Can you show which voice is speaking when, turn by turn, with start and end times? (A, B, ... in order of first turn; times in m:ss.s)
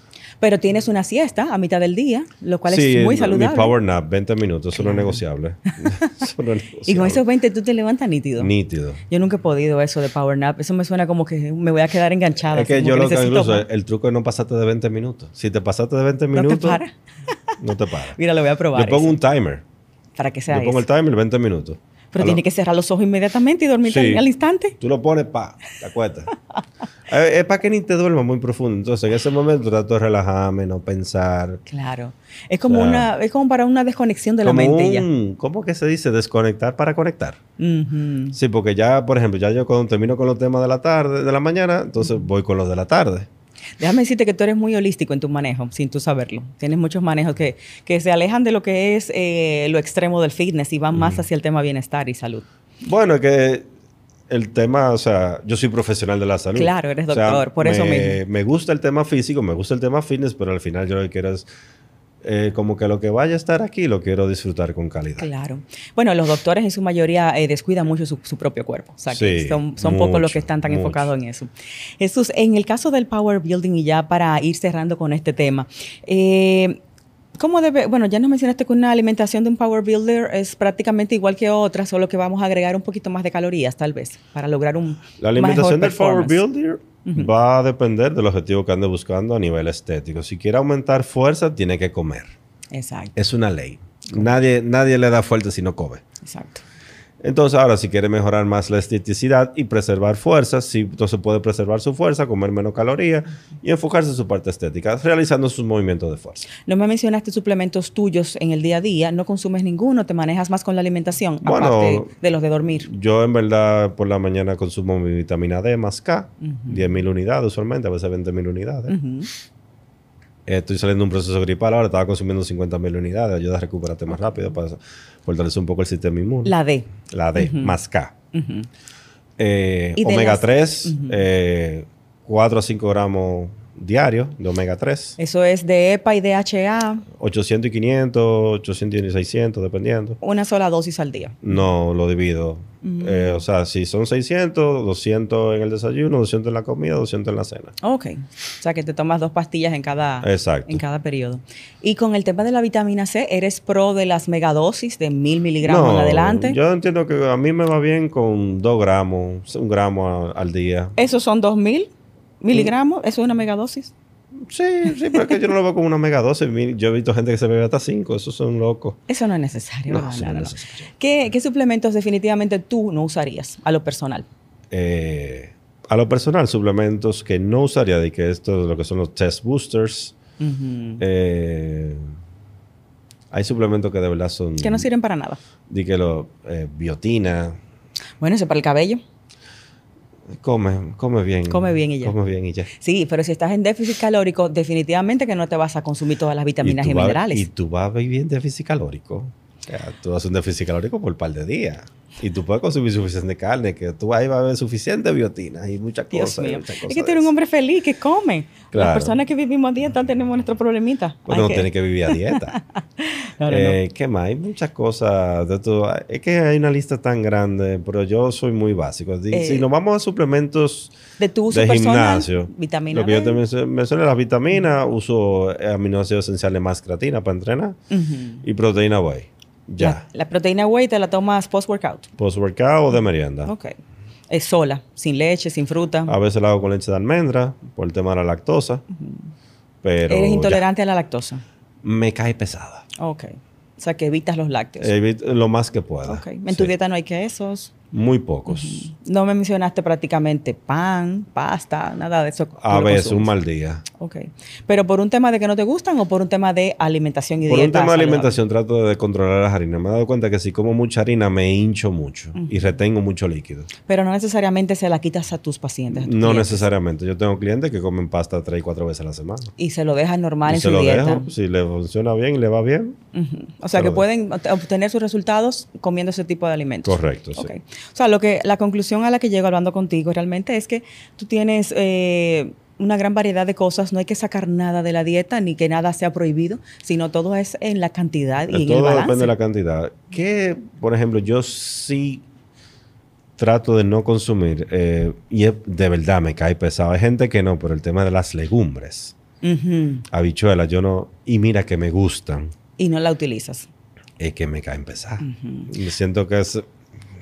0:00.4-0:03.8 A
0:02.7-0:07.2 B
0:04.7-0:05.2 A
0:06.9-0:08.5 A
0:08.4-0:09.0 B
0:09.1-0:13.7 A
0:12.5-0:16.8 B
0:16.3-0:17.6 A
0:17.6-0:18.2 B
0:18.1-0:19.2 A
0:18.7-0:19.6 B
0:20.2-0:20.8 A
0:20.5-0:22.4 B
0:22.1-0:24.8 A
0:23.8-0:24.2 B
0:24.8-0:26.3 B
0:27.1-0:31.6 B
0:31.7-0:35.1 A
0:32.7-0:33.1 B
0:34.4-0:37.4 B
0:37.6-0:38.4 A
0:38.3-0:43.3 B
0:43.8-0:52.4 A
0:51.0-0:51.2 B
0:52.8-0:53.7 B
0:54.3-1:01.5 B
0:56.6-0:58.2 A
1:02.2-1:05.3 B
1:05.2-1:16.8 A
1:09.1-1:11.1 B
1:17.4-1:26.4 A
1:25.2-1:32.3 B
1:27.0-1:27.3 A
1:32.7-1:33.2 A
1:33.2-1:36.0 B
1:36.2-1:36.6 A
1:37.2-1:46.4 B
1:46.6-1:52.9 A
1:51.4-1:52.1 B
1:52.8-1:59.0 B
1:56.4-1:56.9 A
1:58.9-1:59.3 A
2:00.5-2:08.1 B
2:06.4-2:07.8 A
2:08.3-2:08.7 A
2:09.4-2:15.2 B
2:10.0-2:11.2 A
2:15.2-2:17.1 A
2:17.1-2:20.2 B
2:20.2-2:21.4 A
2:21.4-2:27.7 B
2:22.8-2:23.4 A
2:27.8-2:36.6 A
2:30.2-2:30.8 B
2:35.6-2:41.0 B
2:41.0-2:43.9 A
2:44.4-2:49.0 B
2:49.1-2:54.3 A
2:49.9-2:50.9 B
2:54.7-3:00.2 B
3:00.4-3:01.0 A
3:01.0-3:02.1 B
3:03.3-3:04.9 B
3:04.6-3:05.4 A
3:05.7-3:07.6 B
3:08.2-3:09.0 A
3:10.3-3:12.7 B
3:11.5-3:12.2 A
3:12.7-3:17.5 A
3:16.6-3:27.3 B
3:26.1-3:33.8 A
3:28.7-3:29.2 B
3:31.3-3:32.6 B
3:33.5-3:40.9 B
3:39.3-3:39.7 A
3:41.2-3:43.4 A
3:41.5-3:47.8 B
3:47.9-3:48.4 A
3:48.4-3:50.0 B
3:49.8-3:52.1 A
3:52.2-3:53.5 B
3:53.5-3:53.8 A
3:54.3-3:56.1 A
3:56.1-3:58.8 B
3:59.8-4:00.7 B
4:00.1-4:01.4 A
4:01.8-4:02.8 B
4:03.0-4:04.9 A
4:04.8-4:06.7 B
4:06.1-4:07.8 A
4:07.9-4:08.9 B
4:08.5-4:13.3 A
4:12.6-4:13.8 B
4:14.0-4:18.4 A
4:17.5-4:23.7 B
4:23.9-4:26.7 A
4:25.9-4:29.5 B
4:29.6-4:31.3 A
4:30.5-4:33.0 B
4:33.1-4:49.3 A
4:33.7-4:34.0 B
4:36.8-4:37.5 B
4:48.5-4:52.2 B
4:53.4-4:59.2 B
4:59.4-5:00.0 A
5:00.1-5:02.5 B
5:02.8-5:03.7 A
5:04.2-5:06.7 B
5:05.2-5:05.7 A